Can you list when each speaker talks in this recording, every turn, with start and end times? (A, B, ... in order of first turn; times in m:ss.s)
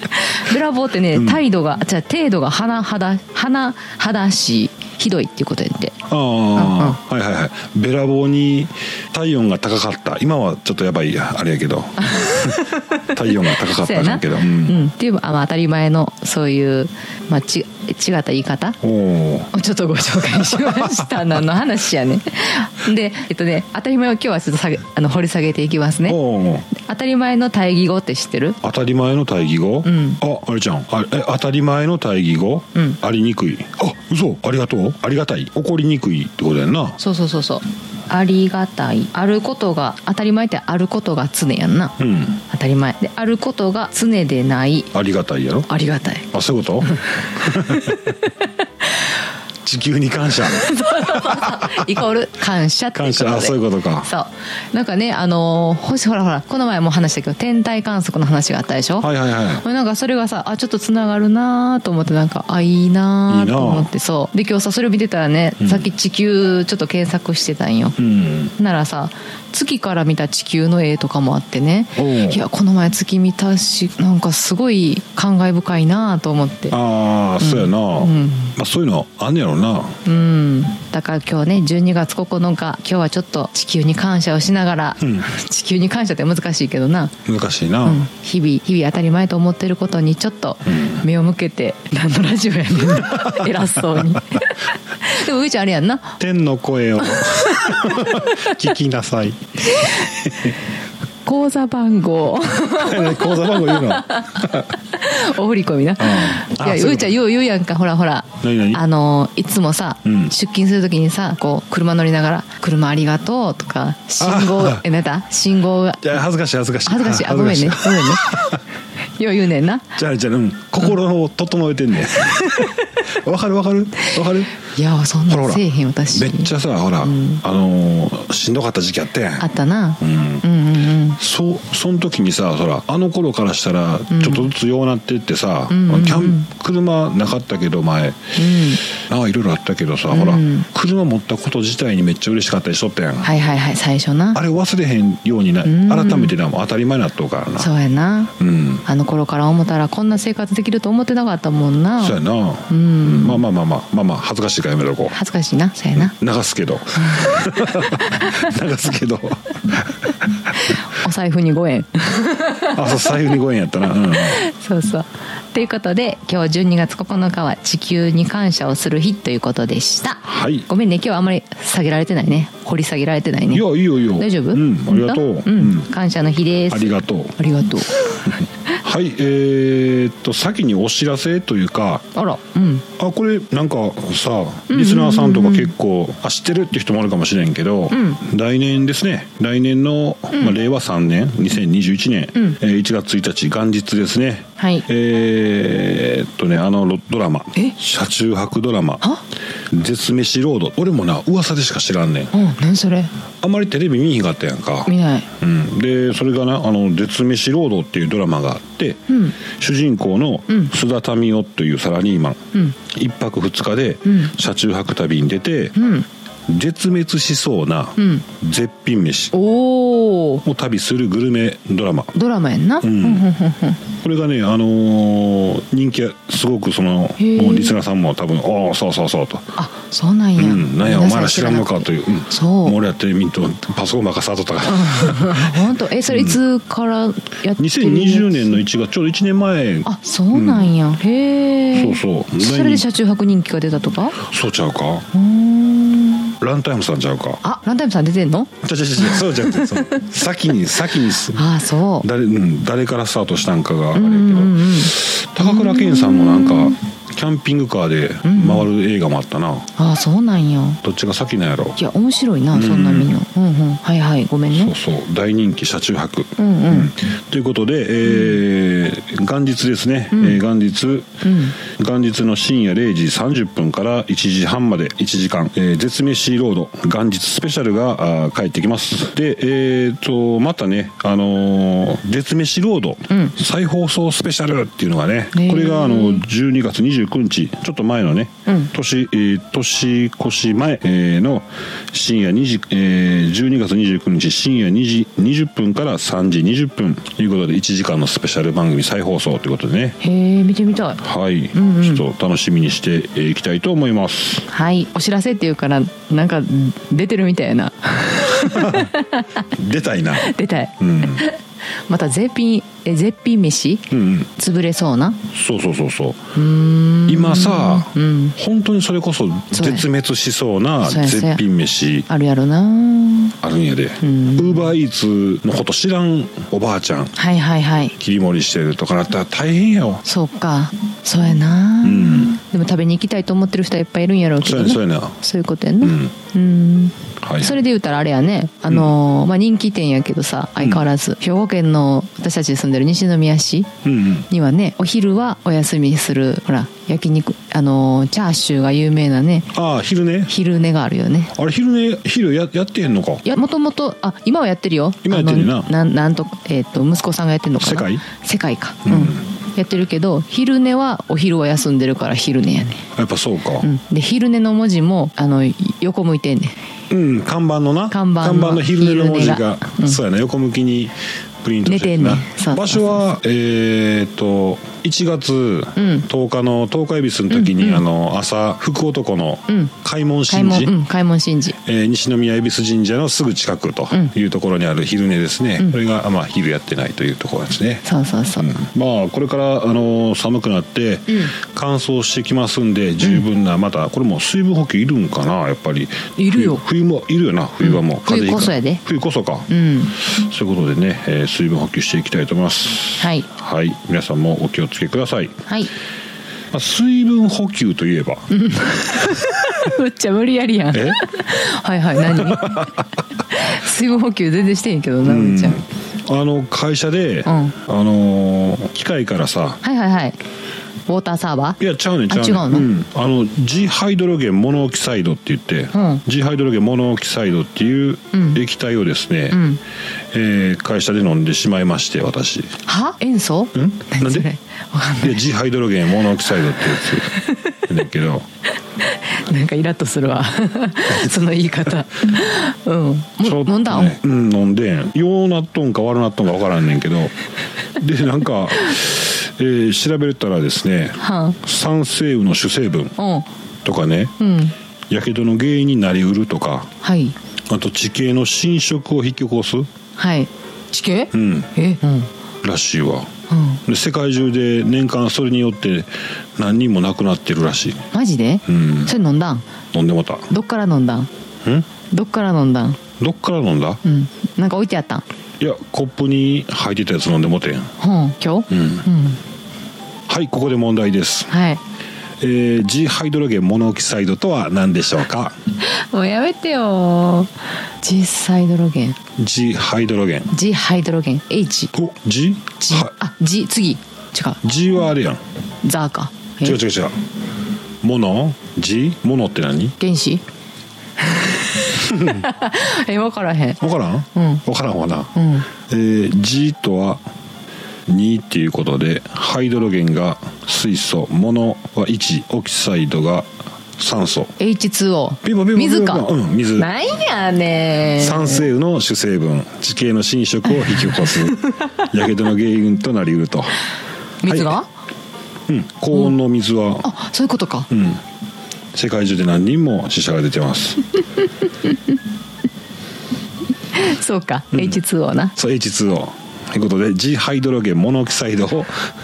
0:00.1-0:06.0 A
0:01.1-0:01.4 B
0:06.1-0:14.8 B
0:06.5-0:07.0 A
0:12.0-0:18.8 A
0:18.8-0:19.5 B
0:19.5-0:28.6 A
0:20.7-0:21.0 B
0:26.0-0:26.7 B
0:28.6-0:37.0 B
0:29.8-0:30.2 A
0:37.0-0:44.9 A
0:42.0-0:42.4 B
0:44.9-0:45.7 B
0:45.7-0:46.3 A
0:46.3-0:48.1 B
0:46.8-0:48.1 A
0:49.6-0:51.9 B
0:50.4-1:08.0 A
0:52.9-0:54.1 B
0:59.0-0:59.6 B
1:03.3-1:03.9 B
1:05.6-1:05.8 B
1:08.0-1:08.5 B
1:08.6-1:16.7 A
1:12.0-1:12.4 B
1:16.7-1:20.0 B
1:17.4-1:18.5 A
1:20.0-1:27.2 A
1:25.0-1:25.3 B
1:27.2-1:28.0 B
1:27.8-1:36.2 A
1:30.7-1:31.0 B
1:33.0-1:34.2 B
1:36.2-1:40.5 B
1:37.1-1:38.5 A
1:39.8-1:40.0 A
1:41.2-1:56.1 A
1:42.7-1:44.7 B
1:46.0-1:47.1 B
1:48.4-1:48.8 B
1:50.0-1:50.3 B
1:54.2-1:54.8 B
1:56.0-1:58.6 B
1:56.9-1:58.4 A
1:59.2-1:59.9 A
2:00.0-2:04.6 B
2:04.6-2:06.5 A
2:05.3-2:10.4 B
2:07.0-2:07.4 A
2:09.4-2:11.2 A
2:11.2-2:23.3 B
2:14.1-2:14.5 A
2:15.7-2:16.4 A
2:18.4-2:18.8 A
2:20.1-2:20.7 A
2:23.2-2:24.4 A
2:24.3-2:27.7 B
2:25.6-2:26.3 A
2:27.6-2:28.3 A
2:28.4-2:28.8 B
2:28.8-2:32.2 A
2:32.0-2:35.2 B
2:32.7-2:33.4 A
2:35.1-2:36.1 A
2:36.0-2:40.7 B
2:37.1-2:38.4 A
2:40.6-2:43.3 A
2:42.7-2:44.4 B
2:44.1-2:58.3 A
2:50.2-2:50.7 B
2:53.5-2:55.9 B
2:56.7-2:57.4 B
2:58.2-3:02.1 B
3:02.1-3:02.8 A
3:03.0-3:19.1 B
3:04.7-3:05.7 A
3:07.9-3:08.2 A
3:14.6-3:14.8 A
3:19.7-3:22.3 B
3:22.3-3:23.1 A
3:23.4-3:35.8 B
3:24.8-3:25.3 A
3:29.1-3:29.3 A
3:34.0-3:34.3 A
3:35.8-3:36.0 A
3:36.5-3:39.3 B
3:39.3-3:40.4 A
3:40.4-3:42.1 B
3:42.1-3:43.8 A
3:42.8-3:43.3 B
3:43.8-3:49.5 B
3:47.2-3:47.8 A
3:49.6-3:52.8 A
3:50.4-3:56.4 B
3:54.7-3:58.6 A
3:57.6-4:00.7 B
3:59.8-4:04.2 A
4:01.7-4:02.8 B
4:04.2-4:05.1 B
4:05.1-4:06.3 A
4:06.4-4:07.4 B
4:07.4-4:10.0 A
4:08.6-4:11.4 B
4:11.2-4:12.1 A
4:12.0-4:19.7 B
4:13.9-4:16.8 A
4:18.2-4:18.7 A
4:19.8-4:20.8 A
4:20.8-4:21.8 B
4:21.8-4:24.7 A
4:22.5-4:23.1 B
4:24.5-5:00.0 B
4:26.4-4:26.9 A
4:28.1-4:28.4 A
4:30.1-4:30.4 A
4:31.2-4:31.5 A
4:45.3-4:46.2 A
5:00.0-5:01.0 A
5:01.0-5:04.4 B
5:01.5-5:02.0 A
5:04.5-5:09.5 A
5:08.4-5:08.9 B
5:09.5-5:11.2 B
5:10.2-5:15.2 A
5:13.9-5:14.3 B
5:15.3-5:16.3 B
5:16.3-5:18.3 A
5:17.1-5:22.1 B
5:19.5-5:19.9 A
5:20.8-5:21.4 A
5:22.1-5:23.4 A
5:23.4-5:27.2 B
5:24.0-5:24.7 A
5:27.2-5:28.0 A
5:28.0-5:30.0 B
5:30.0-5:43.7 A
5:31.8-5:32.4 B
5:34.4-5:35.2 B
5:35.8-5:36.1 B
5:37.2-5:37.6 B
5:40.6-5:40.8 B
5:43.8-5:44.3 B
5:44.3-5:49.5 A
5:49.5-5:50.3 B
5:50.3-5:51.3 A
5:51.3-5:53.2 B
5:53.2-6:02.8 A
5:55.0-5:55.7 B
5:57.6-5:58.0 B
5:58.8-5:59.2 B
6:02.9-6:03.7 B
6:03.6-6:06.6 A
6:06.9-6:20.7 B
6:07.9-6:10.0 A
6:11.6-6:12.8 A
6:15.8-6:16.0 A
6:17.3-6:17.8 A
6:20.3-6:21.6 A
6:21.6-6:27.8 B
6:27.8-6:28.5 A
6:28.4-6:45.4 B
6:36.2-6:36.6 A
6:37.6-6:38.8 A
6:39.5-6:39.9 A
6:43.0-6:43.2 A
6:46.5-6:48.3 B
6:48.3-6:52.7 A
6:50.7-6:51.0 B
6:52.1-6:52.8 B
6:53.3-6:55.6 A
6:55.0-6:59.6 B
6:57.2-6:57.5 A
6:59.6-7:00.2 A
7:00.9-7:01.6 A
7:01.6-7:09.4 B
7:02.1-7:02.7 A
7:05.7-7:06.0 A
7:08.1-7:08.4 A
7:09.3-7:09.6 A
7:10.1-7:12.6 B
7:12.7-7:15.2 A
7:13.5-7:14.3 B
7:15.0-7:18.3 B
7:16.8-7:17.5 A
7:18.8-7:24.0 A
7:23.2-7:27.1 B
7:27.8-7:32.9 B
7:31.0-7:31.4 A
7:33.0-7:33.3 A
7:33.6-7:34.1 B
7:34.2-7:34.5 A
7:34.9-7:36.7 B
7:36.8-7:37.2 A
7:37.5-7:39.7 B
7:40.0-7:42.1 A
7:41.1-7:41.5 B
7:42.4-7:43.1 B
7:43.3-7:43.6 A
7:43.6-7:47.9 B
7:47.9-7:49.4 A
7:48.5-7:48.9 B
7:49.7-7:50.3 B
7:50.3-7:51.1 A
7:51.9-7:52.8 A
7:53.0-7:53.8 B
7:53.8-7:55.0 A
7:55.4-7:57.7 B
7:57.8-7:59.2 A
7:58.5-7:58.9 B
8:00.1-8:01.3 B
8:01.3-8:01.6 A
8:02.2-8:05.4 B
8:05.6-8:09.0 A
8:09.2-8:10.3 B
8:10.3-8:11.7 A
8:11.7-8:12.9 B
8:12.6-8:14.4 A
8:14.4-8:15.2 B
8:15.6-8:16.6 A
8:16.4-8:17.0 B
8:17.8-8:19.8 B
8:19.8-8:20.2 A
8:21.0-8:23.6 A
8:21.8-8:22.2 B
8:23.6-8:27.0 B
8:24.1-8:24.4 A
8:25.1-8:25.5 A
8:27.9-8:34.3 B
8:34.4-8:38.4 A
8:35.2-8:36.7 B
8:38.0-8:43.6 B
8:40.6-8:41.6 A
8:44.2-8:44.7 A
8:44.2-8:44.6 B
8:45.5-8:46.9 B
8:46.8-8:47.7 A
8:47.7-8:48.0 B
8:48.7-8:50.8 B
8:53.7-8:55.3 A
8:55.4-8:58.9 B